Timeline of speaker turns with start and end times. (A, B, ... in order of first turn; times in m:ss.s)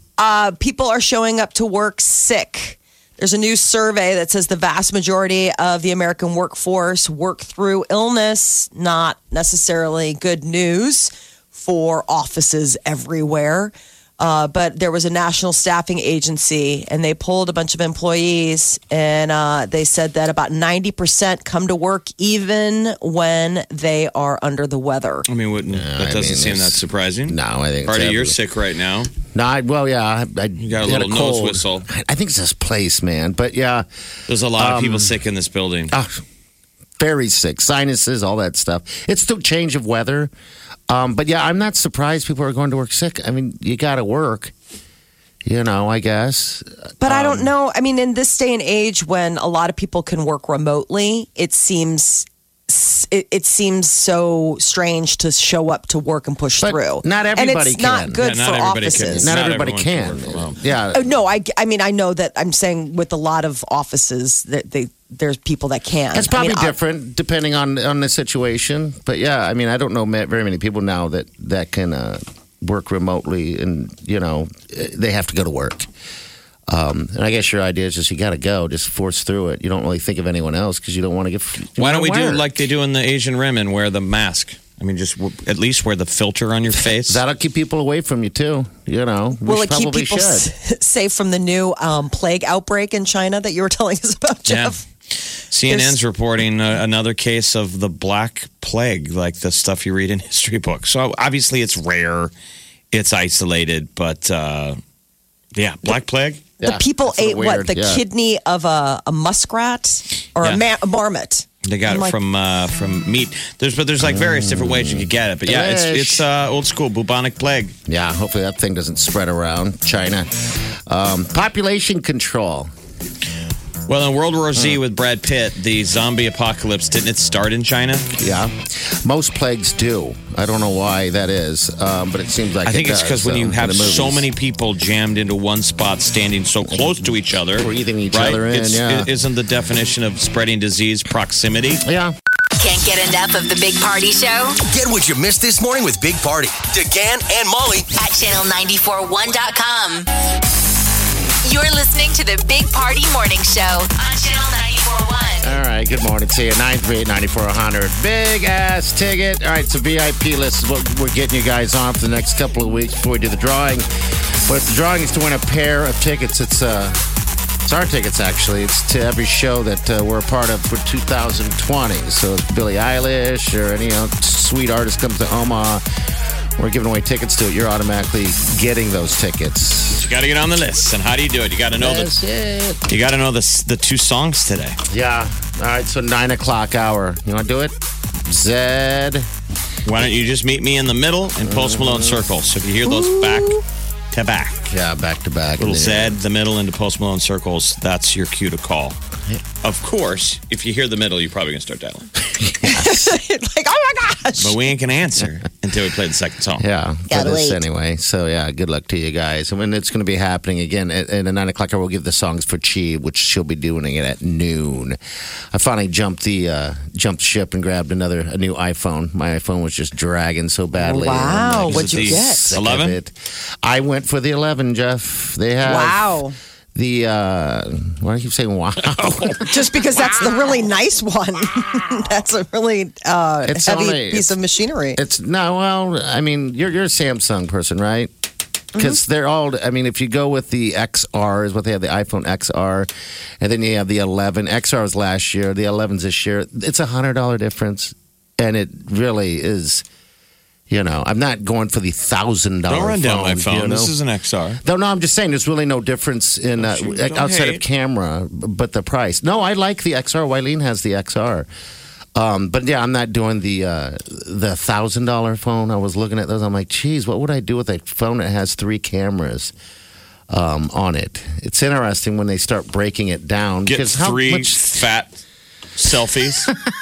0:00.2-0:25.3 A
0:25.3-0:29.1 B
0:25.7-0:28.4 C
0:29.3-0:33.8 C
0:30.6-0:31.9 B
0:34.3-0:35.9 B
0:34.6-0:35.2 C
0:35.9-0:36.2 C
0:37.0-0:40.3 C
0:40.9-0:44.5 C
0:45.4-0:47.5 C
0:47.0-0:59.3 A
0:56.6-0:58.2 C
0:58.2-1:00.6 B
0:59.2-1:01.1 C
1:00.9-1:06.8 A
1:06.1-1:15.9 C
1:16.7-1:22.5 C
1:21.7-1:27.2 B
1:26.8-1:30.5 C
1:29.4-1:34.8 A
1:34.5-1:34.8 B
1:35.5-1:42.3 B
1:35.6-1:36.0 A
1:42.9-1:44.8 B
1:45.6-1:46.5 B
1:46.6-1:48.0 C
1:46.6-1:52.2 A
1:51.7-1:57.7 B
1:54.0-1:56.3 C
1:57.9-2:00.3 C
2:00.9-2:02.7 C
2:03.9-2:08.1 B
2:04.6-2:04.8 C
2:08.2-2:14.3 C
2:12.6-2:21.8 B
2:16.7-2:17.0 C
2:17.6-2:19.1 C
2:21.8-2:22.1 C
2:22.6-2:24.6 D
2:24.6-2:27.9 E
2:28.0-2:30.1 D
2:31.4-2:35.5 D
2:35.4-2:43.9 C
2:44.5-2:47.0 C
2:47.7-2:55.8 C
2:56.6-3:00.1 C
2:59.9-3:02.2 B
3:01.8-3:02.8 C
3:02.9-3:04.8 B
3:04.9-3:07.8 C
3:08.3-3:09.3 C
3:09.8-3:14.7 B
3:11.4-3:12.2 C
3:12.9-3:13.6 A
3:14.7-3:16.2 C
3:15.6-3:19.0 B
3:19.6-3:22.1 B
3:22.2-3:23.2 C
3:22.6-3:24.6 A
3:24.4-3:26.6 B
3:26.6-3:35.0 C
3:27.1-3:27.6 A
3:35.5-3:46.2 C
3:40.8-3:42.6 A
3:41.6-3:43.0 B
3:45.6-3:46.4 A
3:46.8-3:50.3 C
3:49.5-3:55.0 A
3:53.5-3:54.4 C
3:55.0-3:58.1 C
3:58.8-4:02.9 C
4:03.4-4:09.8 C
4:10.7-4:13.9 C
4:12.7-4:14.6 B
4:14.6-4:21.5 C
4:16.6-4:17.6 B
4:22.2-4:29.5 C
4:30.3-4:34.6 C
4:33.6-4:35.2 B
4:35.8-4:36.5 B